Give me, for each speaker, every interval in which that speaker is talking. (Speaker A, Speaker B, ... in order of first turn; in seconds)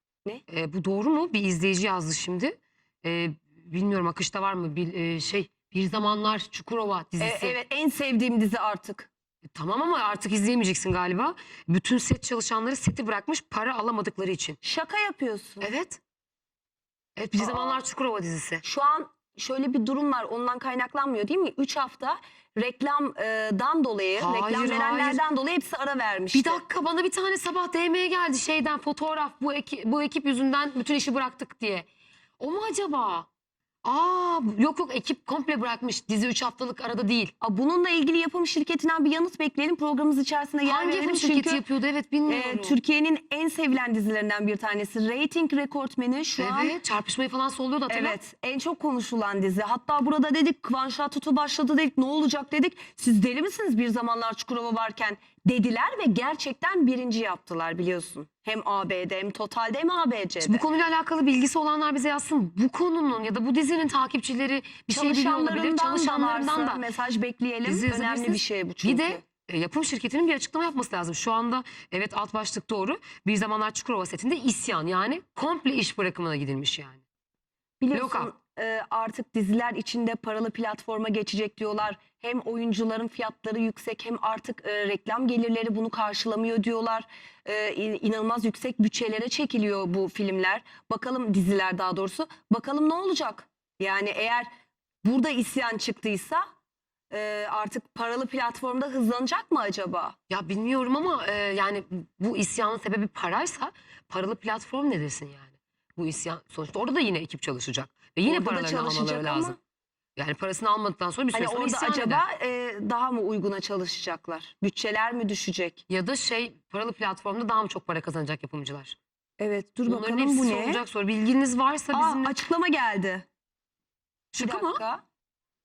Speaker A: 0.5-7.6, 9.5-14.6, 15.6-16.0, 17.2-18.6, 24.2-25.2, 26.3-31.9, 32.4-33.3, 33.8-37.3, 40.6-42.8, 46.4-48.2, 60.4-66.8, 67.7-77.0, 77.9-78.3, 100.3-109.6, 110.2-112.2, 115.9-119.0, 119.9-122.3, 124.3-124.8
Speaker B: 7.2-9.1, 14.6-15.7, 17.4-17.8, 18.6-26.6, 37.4-41.6, 42.3-46.7, 47.9-60.7, 64.9-69.2, 77.8-94.5, 95.0-96.4, 97.1-100.2, 108.3-109.6, 111.3-115.8, 119.4-120.8, 121.9-123.3, 124.4-125.0